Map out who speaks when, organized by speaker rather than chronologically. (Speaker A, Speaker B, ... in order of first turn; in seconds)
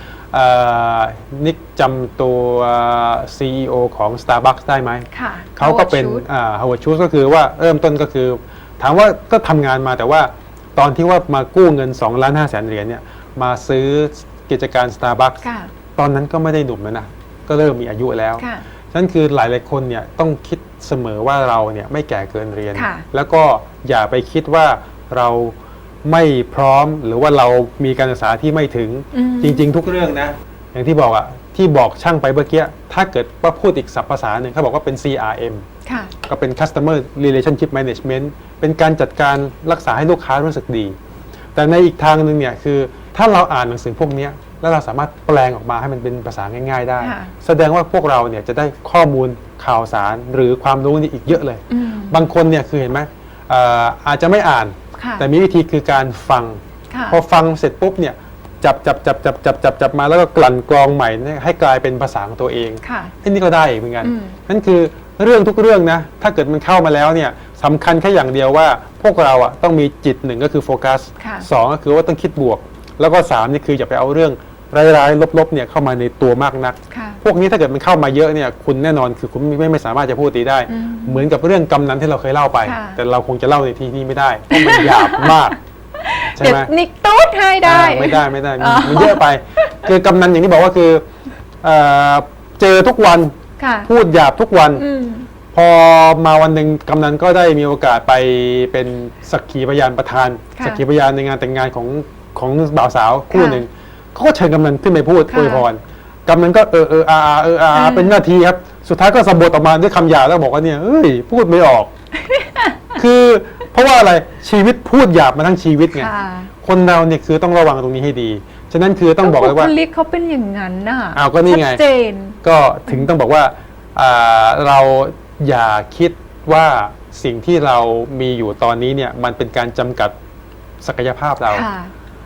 Speaker A: 0.3-15.4, 16.0-35.6, 36.2-41.0, 41.5-85.6, 86.3-86.7, 87.6-91.0, 91.6-93.3, 93.9-94.8, 95.5-111.9, 113.0-116.1, 116.6-119.7, 121.1-121.8, 122.4-130.2, 130.8-131.7
Speaker B: 5.1-6.2, 15.4-15.7, 18.4-18.6, 22.7-23.1, 29.1-29.6, 35.9-36.1, 47.0-47.3, 51.7-52.3, 55.0-55.3, 56.9-57.2, 62.8-63.1, 64.0-64.4, 71.2-71.5, 76.9-77.2, 80.7-81.3, 82.6-83.0, 84.5-85.4, 86.0-89.9, 93.6-93.9, 94.8-95.3, 103.3-103.6, 105.3-105.7, 107.7-108.2, 112.2-112.9, 115.9-116.5, 119.2-123.1, 131.5-131.9